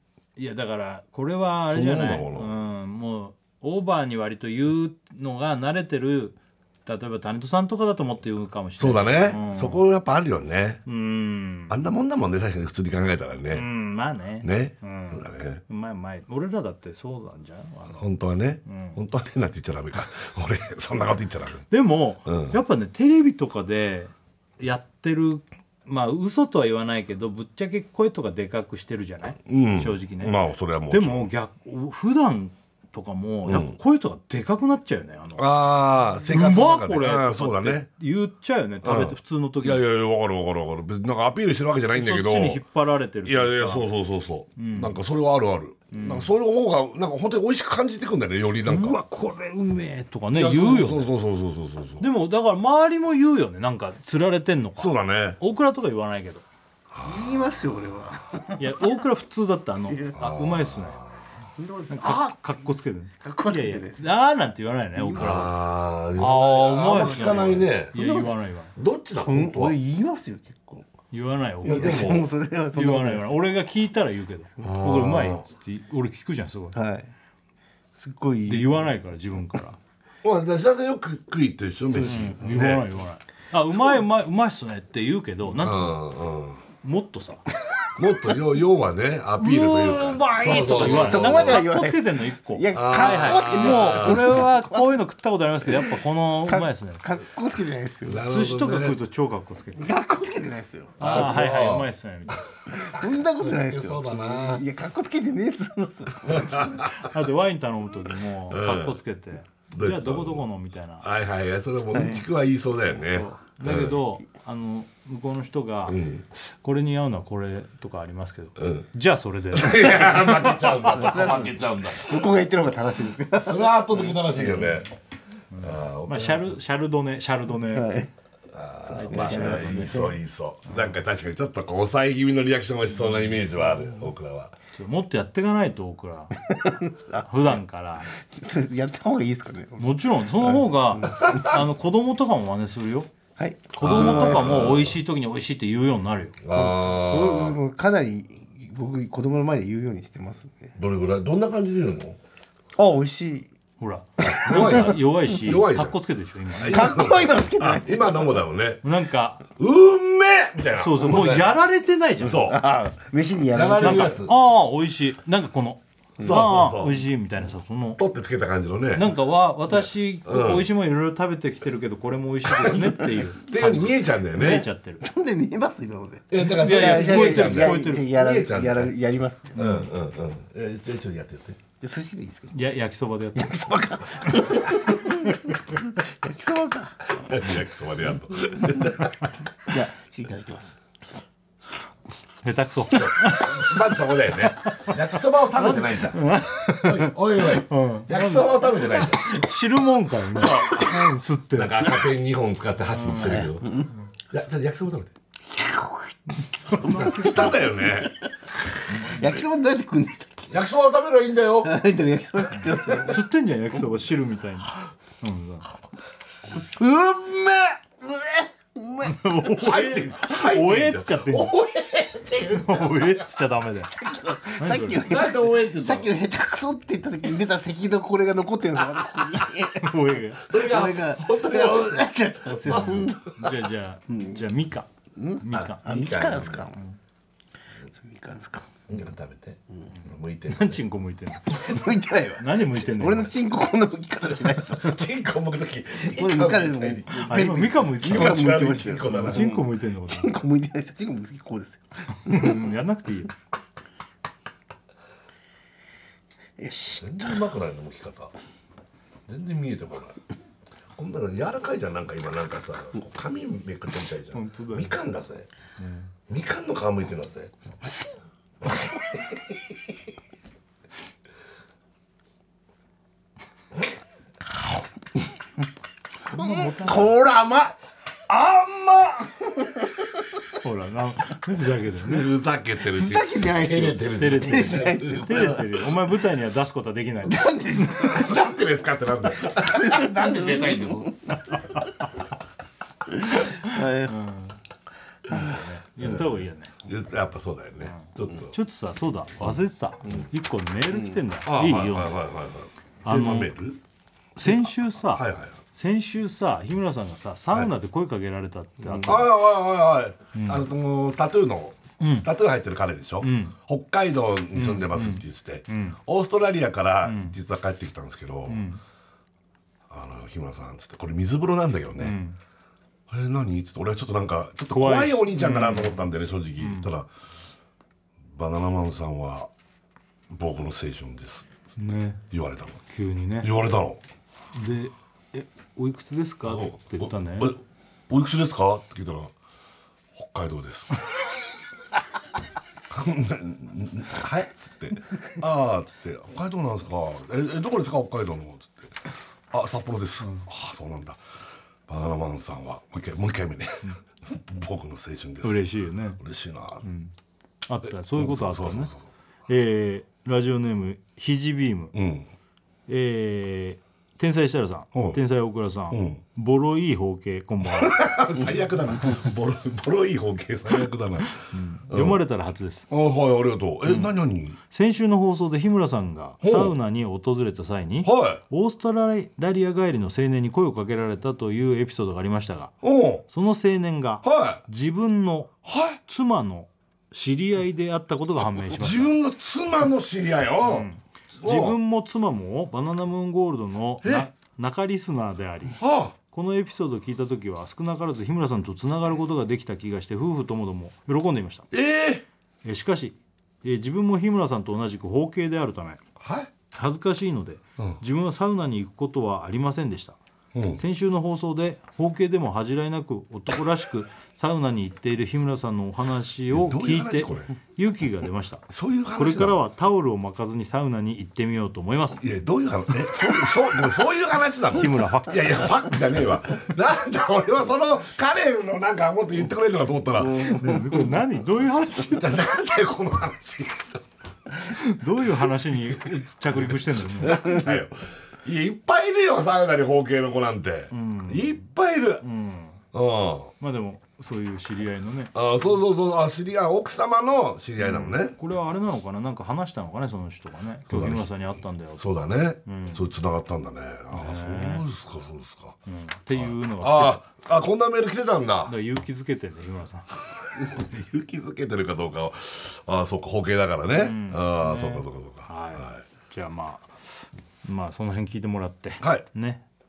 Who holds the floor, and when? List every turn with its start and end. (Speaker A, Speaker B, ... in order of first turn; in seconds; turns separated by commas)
Speaker A: 0.4-9.8, Speaker B: 1.7-2.5, Speaker B: 8.8-10.8, Speaker A: 10.9-11.8, Speaker B: 11.7-13.7, Speaker A: 13.5-18.0, Speaker B: 14.4-15.6, Speaker B: 17.9-21.7, Speaker A: 18.7-19.0, Speaker A: 21.7-30.4, Speaker B: 22.3-22.6, Speaker B: 29.5-31.3, Speaker A: 30.9-35.7, Speaker B: 33.5-33.8, Speaker B: 35.4-37.9, Speaker A: 36.2-39.8, Speaker B: 38.8-42.6, Speaker A: 41.9-43.9, Speaker B: 43.2-49.0, Speaker A: 44.6-45.0, Speaker A: 45.9-46.3, Speaker A: 48.6-51.1, Speaker B: 50.3-52.0, Speaker A: 52.0-56.5, Speaker B: 54.8-55.4, Speaker B: 56.9-57.7, Speaker C: 57.0-58.9, Speaker A: 58.6-61.0, Speaker C: 59.9-60.3, Speaker B: 60.1-61.2, Speaker C: 61.6-62.3, Speaker A: 61.9-65.5, Speaker C: 63.2-64.0, Speaker C: 65.0-65.5, Speaker B: 65.2-68.1, Speaker A: 66.2-68.7, Speaker C: 66.2-68.3, Speaker B: 68.8-69.8, Speaker C: 69.2-70.9, Speaker A: 71.1-72.2, Speaker B: 71.6-72.3, Speaker C: 71.6-73.4, Speaker A: 72.7-76.8, Speaker B: 74.6-75.5, Speaker C: 76.7-77.1, Speaker C: 78.0-78.9, Speaker A: 78.5-79.8, Speaker B: 80.2-82.9, Speaker C: 81.9-82.7, Speaker A: 82.1-86.0, Speaker B: 85.6-86.6, Speaker A: 86.8-87.4, Speaker B: 88.0-91.7, Speaker A: 89.4-97.0, Speaker C: 89.6-95.0, Speaker B: 92.7-94.4, Speaker C: 95.6-98.3, Speaker B: 98.1-99.0, Speaker A: 98.2-99.9, Speaker C: 99.8-101.4, Speaker A: 101.0-102.4, Speaker B: 101.0-102.4, Speaker C: 102.8-106.9, Speaker B: 103.0-104.6, Speaker B: 106.3-107.0, Speaker A: 106.9-111.1, Speaker B: 108.5-109.0, Speaker B: 109.7-110.5, Speaker B: 111.0-114.0, Speaker C: 111.9-112.3, Speaker C: 113.1-113.4, Speaker A: 113.6-120.2, Speaker B: 115.9-116.2, Speaker B: 118.6-118.9, Speaker B: 119.5-122.3, Speaker C: 119.8-124.7, Speaker B: 123.4-124.9, Speaker A: 125.5-127.9, Speaker B: 125.6-126.5, Speaker C: 127.7-128.1, Speaker B: 128.5-134.5, Speaker C: 128.8-130.2, Speaker A: 128.9-130.1, Speaker A: 130.7-130.9, Speaker A: 132.9-133.4, Speaker A: 134.7-136.3, Speaker C: 136.4-137.6, Speaker A: 137.3-138.1, Speaker C: 138.2-141.6, Speaker A: 139.8-143.1, Speaker C: 143.4-144.8, Speaker A: 143.7-146.4, Speaker B: 143.8-145.0, Speaker B: 146.4-147.6, Speaker C: 146.5-150.8, Speaker B: 150.8-152.2, Speaker C: 152.8-153.5, Speaker A: 153.8-157.0, Speaker B: 154.3-156.0, Speaker C: 154.3-155.1, Speaker B: 156.5-158.8, Speaker C: 156.6-158.4, Speaker A: 158.8-159.4, Speaker B: 159.6-161.5, Speaker A: 160.8-162.5, Speaker B: 162.2-162.6, Speaker C: 162.3-164.3, Speaker B: 163.5-164.4, Speaker A: 163.8-168.0, Speaker B: 166.2-167.0, Speaker B: 168.0-169.2, Speaker A: 168.9-175.0, Speaker B: 170.2-170.7, Speaker B: 172.5-172.8, Speaker B: 173.4-174.7, Speaker C: 175.0-179.9, Speaker B: 176.3-178.9, Speaker A: 176.4-178.1, Speaker B: 179.6-181.6, Speaker A: 179.6-179.9, Speaker C: 181.8-182.6, Speaker A: 182.5-183.6, Speaker C: 183.3-187.3, Speaker B: 187.2-189.1, Speaker C: 189.7-190.8, Speaker A: 192.4-193.8, Speaker B: 193.0-199.4, Speaker A: 194.4-194.9, Speaker A: 195.5-202.1, Speaker B: 200.3-205.1, Speaker A: 202.9-203.5, Speaker C: 203.2-203.9, Speaker A: 206.6-207.7, Speaker C: 206.7-208.0, Speaker B: 206.8-208.1, Speaker C: 209.0-210.5, Speaker B: 209.1-209.4, Speaker B: 210.5-211.8, Speaker C: 211.6-213.2, Speaker A: 213.1-215.7, Speaker C: 216.5-219.3, Speaker A: 219.1-221.6, Speaker B: 219.5-222.6, Speaker A: 222.4-223.9, Speaker C: 223.9-233.4, Speaker A: 224.6-225.0, Speaker B: 225.0-226.1, Speaker A: 229.8-230.4, Speaker B: 230.5-233.2, Speaker A: 233.4-234.9, Speaker C: 234.1-234.4, Speaker C: 235.2-236.8, Speaker A: 235.4-235.8, Speaker B: 235.5-236.7, Speaker C: 237.9-238.8, Speaker B: 238.9-240.8, Speaker A: 240.5-241.8, Speaker C: 241.5-245.1, Speaker A: 242.4-243.4, Speaker B: 244.8-247.3, Speaker C: 246.0-252.6, Speaker A: 247.2-250.3, Speaker B: 248.0-249.6, Speaker A: 252.2-253.3, Speaker C: 256.6-257.4, Speaker B: 257.0-258.3, Speaker B: 259.3-260.2, Speaker B: 260.9-265.5, Speaker A: 264.3-265.0, Speaker A: 265.8-266.1, Speaker B: 266.3-267.5, Speaker B: 268.7-269.6, Speaker A: 276.3-277.1, Speaker C: 276.3-277.8, Speaker C: 278.3-280.0, Speaker A: 280.6-282.3, Speaker B: 281.9-285.8, Speaker C: 282.9-285.6, Speaker A: 284.2-288.1, Speaker C: 287.3-288.4, Speaker B: 288.0-291.3, Speaker C: 289.5-291.4, Speaker C: 293.3-294.2, Speaker A: 293.7-294.6, Speaker A: 295.3-296.8, Speaker B: 296.0-298.5, Speaker A: 297.8-302.2, Speaker B: 299.4-300.2, Speaker B: 301.5-303.8, Speaker A: 303.1-303.5, Speaker A: 304.4-309.3, Speaker B: 304.4-305.6, Speaker C: 308.8-309.2, Speaker B: 309.1-318.7, Speaker A: 310.3-310.7, Speaker A: 312.0-312.3, Speaker A: 313.2-313.6, Speaker A: 314.5-316.0, Speaker A: 317.0-317.4, Speaker A: 318.5-318.8, Speaker B: 319.9-322.2, Speaker A: 322.0-322.4, Speaker B: 323.1-327.1, Speaker A: 324.7-326.0, Speaker A: 326.6-326.9, Speaker B: 328.3-329.5, Speaker B: 330.3-331.8, Speaker A: 331.8-332.2, Speaker B: 332.3-332.8, Speaker A: 332.9-333.5, Speaker B: 333.4-334.0, Speaker A: 334.5-337.6, Speaker B: 336.4-339.3, Speaker B: 340.1-341.0, Speaker B: 342.9-348.9, Speaker B: 349.5-351.2, Speaker A: 350.2-350.5, Speaker B: 351.9-356.9, Speaker A: 355.4-356.2, Speaker A: 356.8-357.1, Speaker A: 357.7-358.9, Speaker B: 357.8-359.1, Speaker A: 359.5-361.9, Speaker B: 361.9-362.3, Speaker A: 362.9-368.0, Speaker B: 364.9-365.2, Speaker B: 365.9-366.2, Speaker B: 367.6-372.2, Speaker A: 371.4-372.9, Speaker B: 372.9-374.6, Speaker A: 373.9-374.1, Speaker A: 374.7-382.8, Speaker B: 376.4-376.8, Speaker B: 378.0-378.4, Speaker B: 382.8-383.3, Speaker A: 383.3-389.1, Speaker B: 384.2-384.6, Speaker B: 385.6-386.0, Speaker B: 388.8-390.9, Speaker A: 390.6-401.7, Speaker B: 391.4-391.8, Speaker B: 395.8-396.1, Speaker B: 401.7-402.2, Speaker A: 402.6-406.0, Speaker B: 406.2-406.5, Speaker A: 406.7-410.2, Speaker B: 410.5-410.8, Speaker A: 410.7-422.2, Speaker B: 416.5-417.5, Speaker B: 418.7-419.6, Speaker B: 422.2-430.9, Speaker A: 424.7-425.7, Speaker C: 430.2-431.1, Speaker A: 430.5-432.4, Speaker B: 431.9-434.0, Speaker A: 434.7-437.8, Speaker B: 436.5-442.2, Speaker A: 440.9-441.6, Speaker A: 442.2-442.8, Speaker B: 442.9-443.5, Speaker A: 443.6-445.3, Speaker B: 445.3-448.4, Speaker A: 447.8-453.1, Speaker B: 450.9-451.3, Speaker B: 452.0-455.8, Speaker A: 454.1-454.9, Speaker A: 455.9-457.2, Speaker B: 456.3-458.7, Speaker A: 458.6-460.1, Speaker B: 460.5-466.1, Speaker A: 463.9-466.9, Speaker A: 467.6-469.6, Speaker B: 469.0-469.3